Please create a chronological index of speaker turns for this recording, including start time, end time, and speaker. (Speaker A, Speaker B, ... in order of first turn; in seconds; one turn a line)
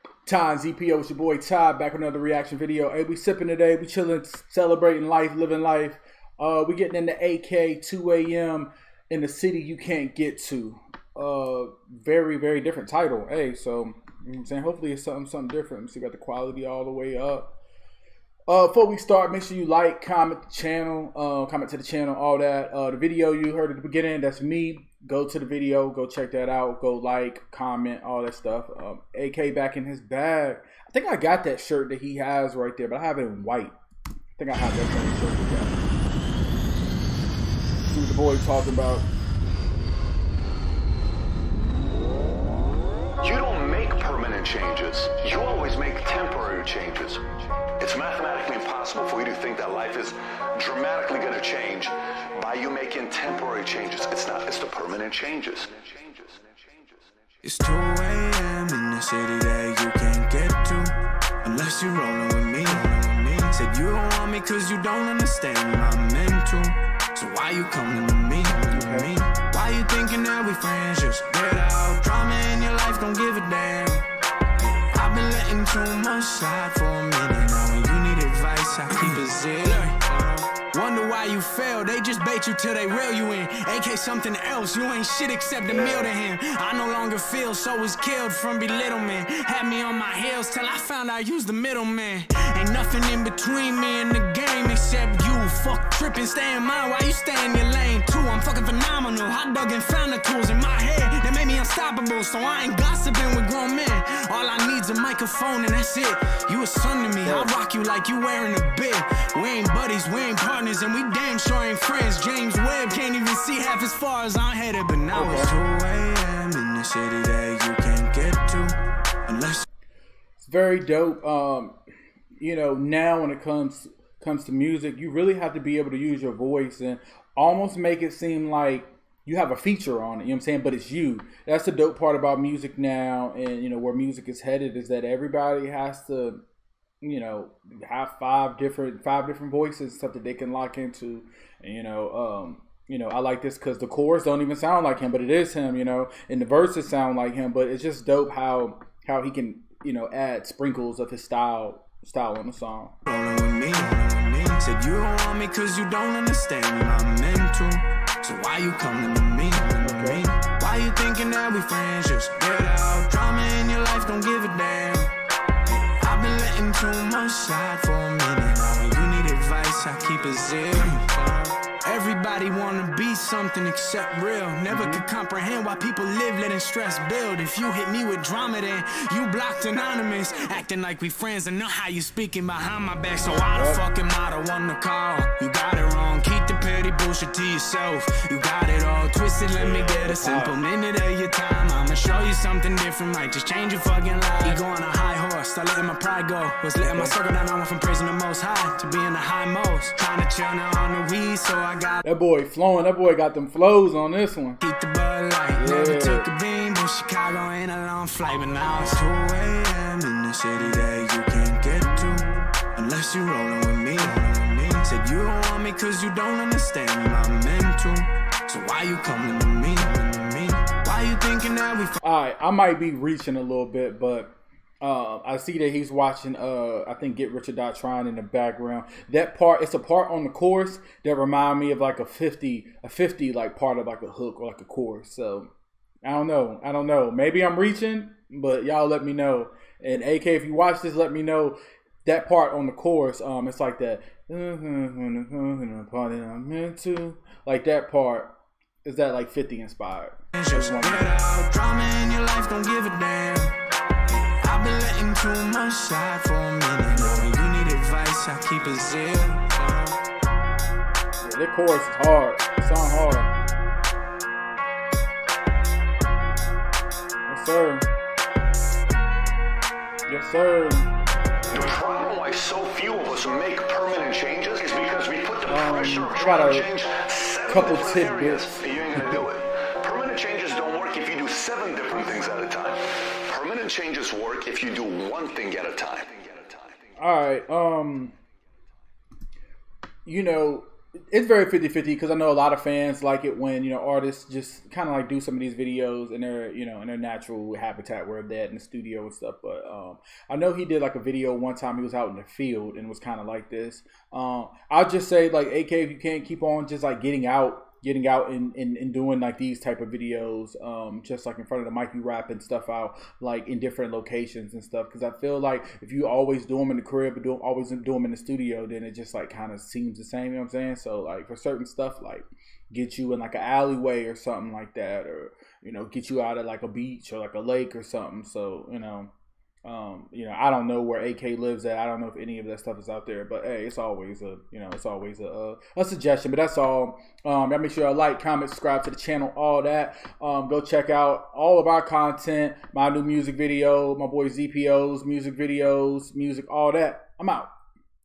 Speaker A: 0.2-17.5
Speaker A: 18.5-33.8
Speaker A: 34.4-35.8
Speaker A: 37.9-39.1
Speaker B: 43.2-47.2
Speaker B: 47.8-56.9
Speaker C: 57.4-74.1
Speaker A: 68.7-69.1
Speaker C: 74.6-119.6
Speaker A: 85.6-86.1
Speaker A: 107.0-107.5
Speaker A: 115.1-115.5
Speaker A: 120.4-121.8
Speaker A: 122.4-136.4
Speaker A: 137.0-152.9
Speaker C: 153.1-165.1
Speaker A: 159.8-160.2
Speaker C: 165.7-202.0
Speaker A: 174.7-175.1
Speaker A: 183.5-183.8
Speaker A: 189.5-190.6
Speaker A: 196.8-197.2
Speaker A: 202.0-204.6
Speaker C: 204.6-222.0
Speaker A: 205.5-206.3
Speaker A: 210.6-210.9
Speaker A: 211.9-212.5
Speaker A: 222.0-235.5
Speaker A: 236.0-248.3
Speaker A: 248.8-251.1
Speaker C: 250.4-253.6
Speaker C: 254.1-260.0
Speaker A: 261.2-263.3
Speaker A: 267.3-267.9
Speaker A: 270.1-270.9
Speaker B: 271.5-286.8
Speaker A: 275.4-276.7
Speaker A: 277.5-279.3
Speaker A: 287.0-288.1
Speaker A: 290.1-329.1
Speaker A: 329.6-347.5